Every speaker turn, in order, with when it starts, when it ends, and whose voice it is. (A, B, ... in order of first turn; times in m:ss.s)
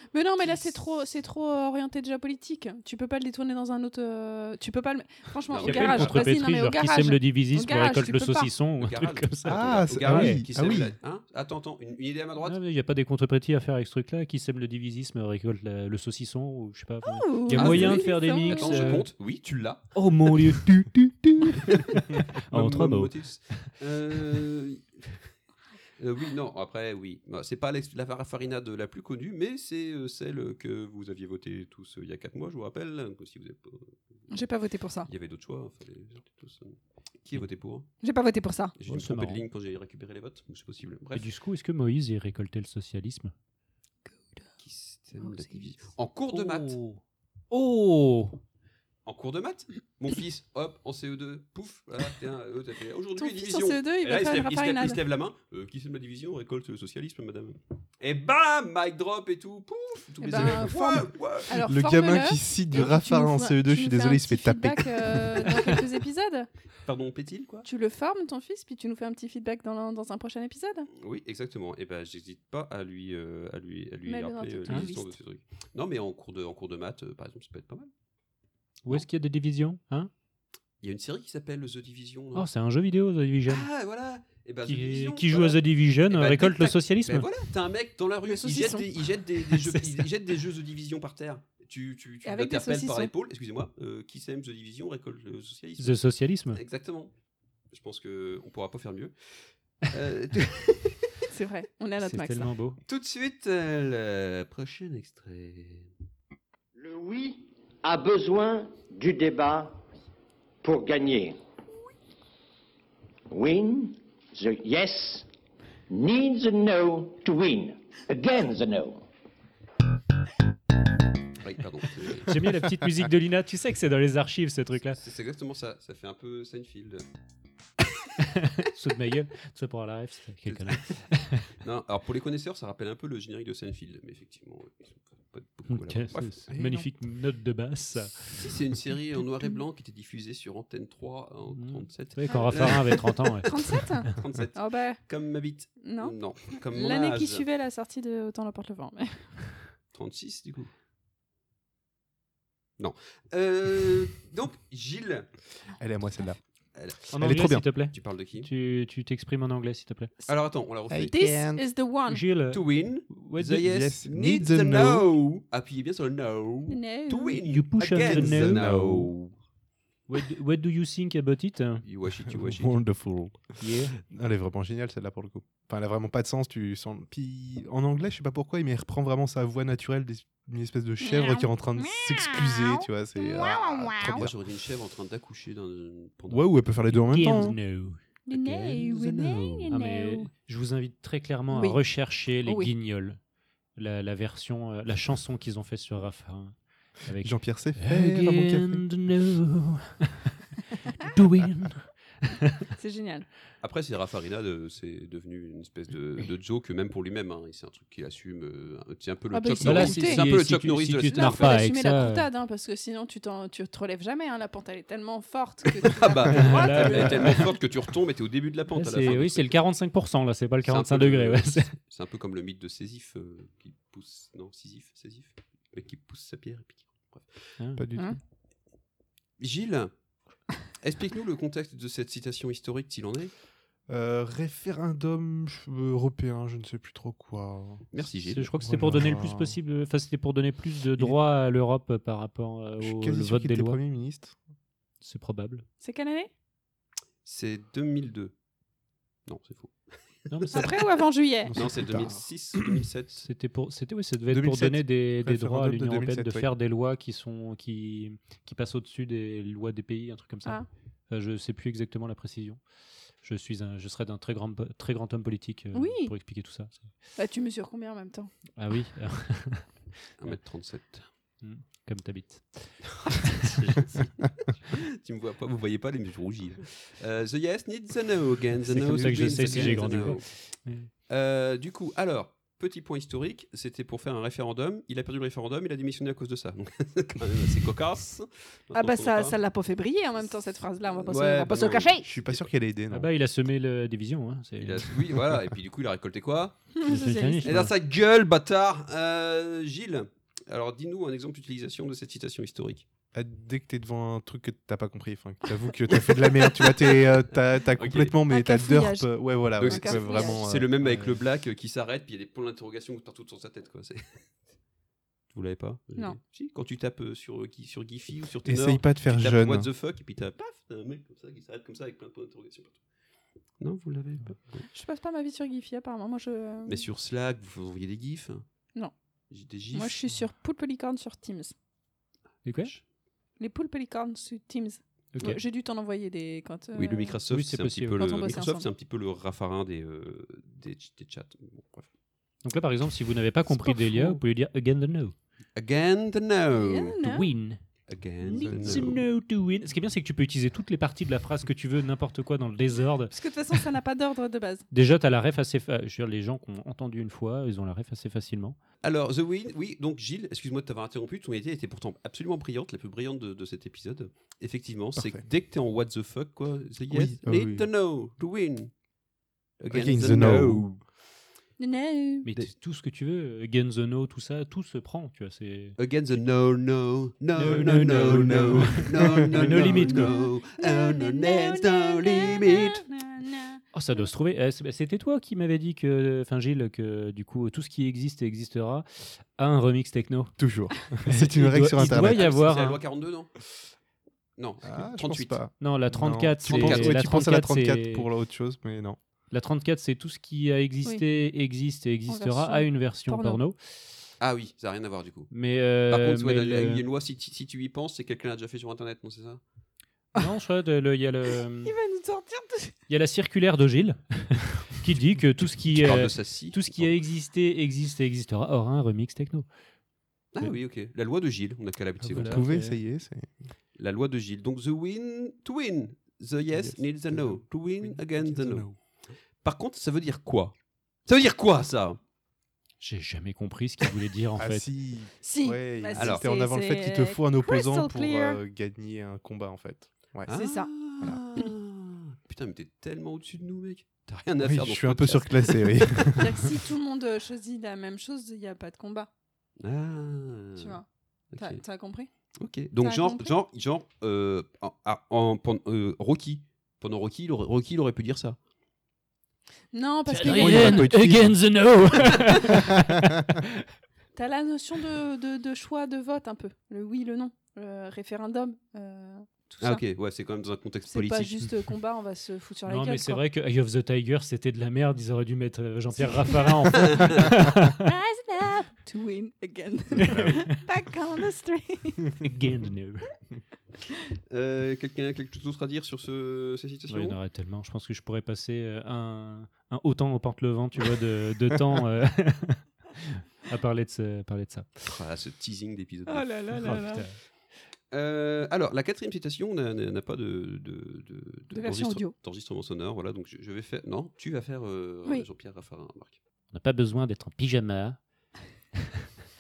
0:00.1-0:08.5 A
0:05.5-0:06.3 B
0:05.6-0:10.4 C
0:08.8-0:12.6 B
0:09.4-0:11.0 D
0:12.4-0:19.1 C
0:17.0-0:19.0 A
0:17.5-0:20.6 B
0:20.0-0:23.7 C
0:21.5-0:25.2 B
0:26.0-0:34.3 B
0:34.3-0:35.1 A
0:35.1-0:37.9 B
0:38.0-0:38.8 A
0:38.8-0:41.3 B
0:38.9-0:39.4 C
0:41.2-0:43.3 C
0:44.1-0:44.5 A
0:44.6-0:46.8 B
0:45.2-0:45.6 A
0:46.3-0:48.4 C
0:49.1-1:01.5 B
0:53.2-0:55.0 A
1:00.2-1:06.5 A
1:00.4-1:00.8 D
1:01.5-1:05.4 D
1:06.9-1:07.7 B
1:07.6-1:10.9 A
1:11.0-1:17.9 B
1:14.0-1:15.2 A
1:18.9-1:20.1 C
1:20.8-1:22.5 B
1:22.4-1:23.7 C
1:23.5-1:37.1 B
1:24.6-1:27.3 C
1:28.3-1:28.9 A
1:29.5-1:30.1 C
1:32.2-1:33.1 A
1:35.8-1:36.6 C
1:37.7-1:39.1 B
1:39.9-1:41.1 B
1:41.3-1:42.5 A
1:42.0-1:42.8 C
1:42.9-1:45.9 B
1:46.8-1:49.8 E
1:50.6-1:51.4 E
1:53.3-1:55.3 E
1:55.9-1:59.0 E
2:01.4-2:02.4 B
2:02.2-2:05.0 C
2:04.9-2:07.0 B
2:08.6-2:11.4 C
2:10.5-2:10.9 B
2:11.5-2:16.4 B
2:15.7-2:18.4 C
2:16.5-2:16.9 D
2:18.3-2:27.4 B
2:21.6-2:23.6 C
2:23.5-2:25.0 A
2:25.8-2:29.3 A
2:29.9-2:30.7 B
2:32.8-2:35.3 B
2:35.8-2:36.4 D
2:36.8-2:37.1 B
2:37.1-2:40.1 C
2:37.1-2:37.6 D
2:37.9-2:38.5 B
2:40.3-2:41.4 B
2:40.9-2:41.6 D
2:41.1-2:42.2 A
2:42.1-2:43.7 C
2:42.5-2:49.2 B
2:43.6-2:45.1 D
2:46.7-2:47.4 A
2:47.4-2:49.1 C
2:48.0-2:49.3 D
2:50.1-2:51.8 C
2:51.8-2:52.8 B
2:52.3-3:04.3 D
2:53.6-2:53.9 C
3:01.0-3:01.4 A
3:03.3-3:06.5 B
3:06.3-3:07.6 D
3:06.9-3:08.0 C
3:08.3-3:10.3 A
3:08.3-3:09.7 B
3:09.7-3:13.2 C
3:11.5-3:12.7 A
3:13.8-3:22.6 C
3:17.2-3:18.9 D
3:22.8-3:23.3 A
3:23.6-3:31.6 B
3:29.3-3:30.4 A
3:29.6-3:32.3 C
3:31.1-3:37.4 A
3:35.8-3:39.6 B
3:36.3-3:37.4 C
3:38.8-3:41.7 C
3:40.6-3:47.6 B
3:47.8-3:48.2 D
3:49.4-3:49.9 B
3:50.8-3:53.3 B
3:53.9-3:57.9 D
3:57.9-3:58.5 B
3:58.3-4:03.8 C
3:58.6-3:59.6 D
4:02.8-4:04.4 D
4:05.0-4:05.7 C
4:05.8-4:06.3 A
4:07.2-4:08.3 B
4:09.3-4:09.8 B
4:10.3-4:10.9 B
4:10.3-4:10.7 C
4:10.5-4:11.6 A
4:11.5-4:12.2 D
4:11.6-4:13.2 B
4:13.2-4:22.6 C
4:14.3-4:16.5 D
4:23.2-4:26.9 C
4:25.7-4:26.1 A
4:27.2-4:28.3 A
4:28.6-4:29.7 C
4:30.2-4:31.1 B
4:31.4-4:32.8 C
4:33.4-4:33.8 C
4:33.4-4:40.3 B
4:38.7-4:40.9 C
4:41.1-4:49.4 B
4:48.7-4:52.1 A
4:50.9-4:52.5 B
4:52.0-4:53.1 D
4:52.9-4:54.9 C
4:54.6-4:56.7 B
4:56.8-4:57.7 A
4:56.8-4:57.7 C
4:57.4-5:02.8 B
5:03.1-5:11.2 D
5:07.8-5:08.2 B
5:08.3-5:10.4 A
5:09.6-5:14.2 B
5:15.3-5:22.8 B
5:18.4-5:19.7 D
5:23.6-5:24.6 B
5:24.7-5:26.8 A
5:26.7-5:28.4 B
5:29.3-5:30.0 B
5:29.7-5:31.5 A
5:32.4-5:32.7 C
5:33.4-5:37.2 A
5:35.1-5:35.4 C
5:36.8-5:41.9 B
5:37.3-5:38.3 C
5:38.0-5:38.7 A
5:42.4-5:45.2 C
5:43.8-5:44.1 B
5:45.6-5:47.0 B
5:46.5-5:47.3 A
5:47.0-5:47.6 C
5:47.9-5:49.0 B
5:48.2-5:49.0 D
5:48.2-5:53.1 C
5:53.1-5:54.7 A
5:54.7-5:58.6 C
5:58.8-6:08.7 B
6:05.0-6:05.2 D
6:06.9-6:07.7 D
6:09.6-6:10.8 B
6:09.7-6:10.8 D
6:11.6-6:12.3 A
6:12.2-6:15.8 C
6:15.8-6:22.8 B
6:17.4-6:19.9 D
6:17.4-6:20.0 C
6:20.0-6:24.0 A
6:23.7-6:30.4 C
6:30.4-6:32.3 D
6:31.1-6:32.8 C
6:31.8-6:33.7 B
6:34.4-6:35.4 B
6:34.6-6:39.0 D
6:35.6-6:38.1 C
6:36.5-6:36.9 B
6:39.3-6:43.6 C
6:42.1-6:43.4 A
6:44.2-6:45.3 B
6:45.3-6:46.8 C
6:45.9-6:49.4 B
6:50.2-6:51.7 C
6:51.6-6:52.7 A
6:52.9-6:59.5 C
6:55.7-6:56.9 B
7:00.3-7:02.5 B
7:02.0-7:02.8 C
7:02.2-7:03.4 D
7:03.8-7:08.7 B
7:06.5-7:08.8 D
7:09.4-7:10.5 B
7:11.1-7:12.0 B
7:12.8-7:14.7 C
7:14.4-7:20.3 D
7:15.2-7:18.4 A
7:15.9-7:16.2 B
7:20.3-7:20.7 A
7:20.3-7:26.2 B
7:24.4-7:26.5 D
7:26.2-7:29.1 A
7:29.6-7:30.8 B
7:30.6-7:30.8 A
7:31.3-7:31.6 B
7:31.4-7:32.1 A
7:32.4-7:38.4 B
7:32.8-7:33.4 A
7:39.7-7:40.9 A
7:40.1-7:43.1 C
7:40.2-7:42.8 D
7:44.2-7:49.8 A
7:49.6-7:51.4 B
7:50.9-7:53.2 A
7:52.7-7:57.8 C
7:55.9-7:57.0 A
7:56.8-7:57.3 B
7:57.8-8:02.3 A
8:00.0-8:00.6 C
8:02.2-8:03.1 C
8:04.3-8:07.2 B
8:06.9-8:14.7 C
8:14.8-8:16.8 B
8:16.1-8:17.1 A
8:16.5-8:17.1 C
8:17.9-8:26.2 B
8:21.5-8:22.2 A
8:26.5-8:28.0 C